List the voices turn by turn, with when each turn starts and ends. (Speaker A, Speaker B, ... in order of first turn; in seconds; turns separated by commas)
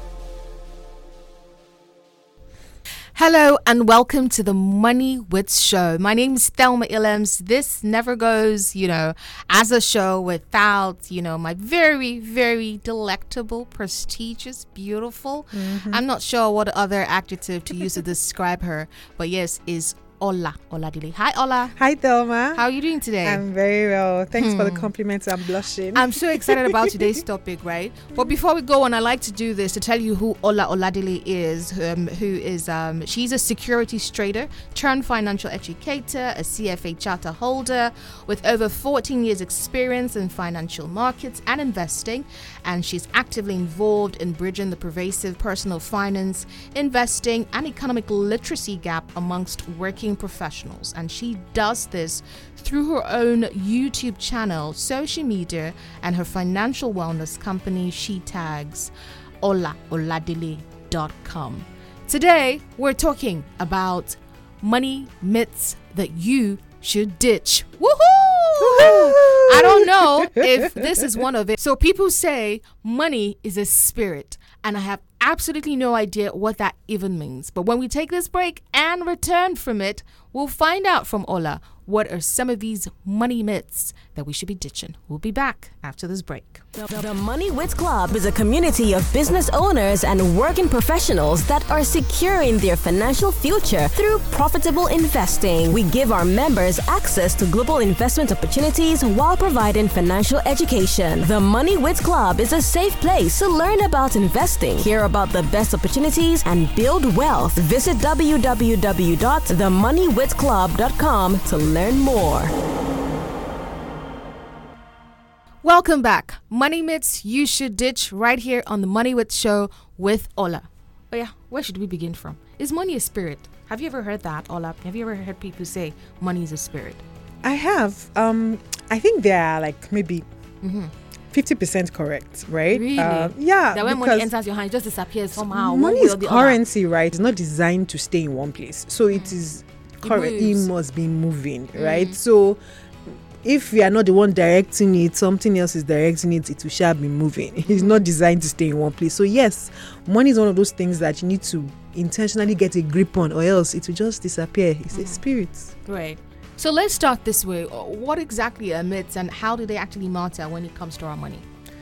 Speaker A: 3.1-21.8, Speaker B: 15.5-16.0, Speaker B: 21.8-22.6, Speaker A: 22.5-23.4, Speaker B: 23.2-27.2, Speaker A: 24.3-24.9, Speaker A: 25.9-86.6, Speaker B: 68.6-71.0, Speaker C: 86.8-112.5, Speaker A: 115.6-127.0, Speaker B: 127.4-130.2, Speaker A: 130.6-130.9, Speaker B: 131.3-134.3, Speaker A: 132.7-136.6, Speaker B: 135.4-155.7, Speaker A: 140.0-140.7, Speaker A: 141.8-142.2, Speaker A: 147.7-148.0, Speaker A: 154.9-155.2, Speaker A: 155.8-161.4